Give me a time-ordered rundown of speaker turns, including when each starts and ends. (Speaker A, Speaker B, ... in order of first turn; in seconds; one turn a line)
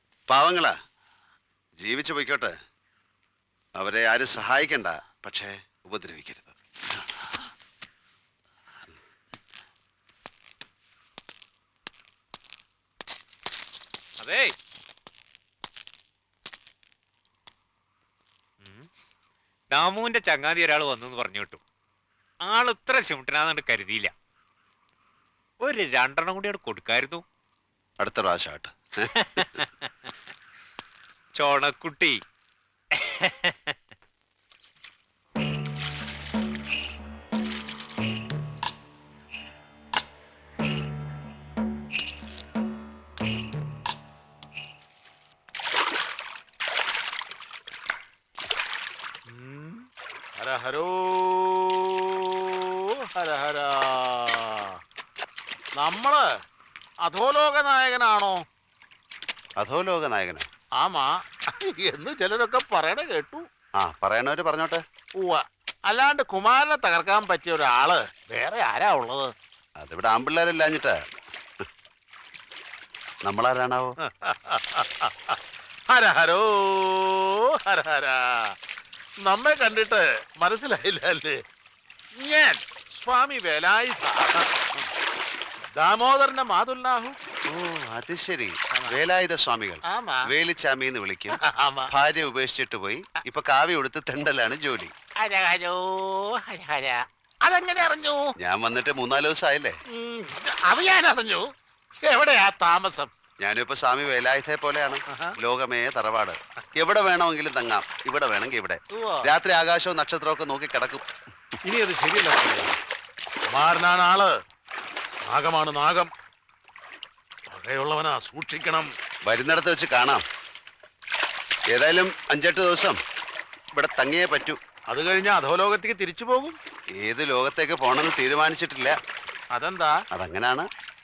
Speaker A: 0.3-0.7
Speaker A: 1.8-2.5
Speaker A: 3.8-6.5
Speaker B: 14.2-14.5
Speaker B: 19.7-21.6
Speaker B: 22.4-24.1
Speaker B: 25.6-27.2
Speaker A: 28.0-29.4
Speaker B: 31.3-32.2
Speaker B: 32.9-33.7
Speaker C: 49.3-49.8
Speaker C: 50.4-54.8
Speaker C: 55.8-56.2
Speaker C: 57.0-58.4
Speaker A: 59.6-60.5
Speaker C: 60.8-63.4
Speaker A: 63.8-64.8
Speaker C: 65.2-69.3
Speaker A: 69.8-71.0
Speaker A: 73.2-74.0
Speaker C: 74.0-78.5
Speaker C: 79.2-81.4
Speaker C: 82.2-84.8
Speaker C: 85.7-87.2
Speaker A: 87.5-91.4
Speaker C: 89.9-90.3
Speaker C: 91.4-91.9
Speaker A: 91.9-94.9
Speaker C: 95.2-98.3
Speaker A: 98.4-99.8
Speaker C: 99.9-101.4
Speaker C: 102.0-103.1
Speaker A: 103.4-111.0
Speaker C: 105.1-105.4
Speaker C: 108.9-109.3
Speaker C: 111.6-112.7
Speaker C: 113.5-114.3
Speaker C: 115.2-116.1
Speaker C: 117.5-118.9
Speaker A: 119.2-120.2
Speaker A: 121.7-123.0
Speaker A: 123.8-124.6
Speaker C: 124.9-126.6
Speaker A: 127.0-128.9
Speaker C: 129.5-129.9
Speaker A: 130.1-130.7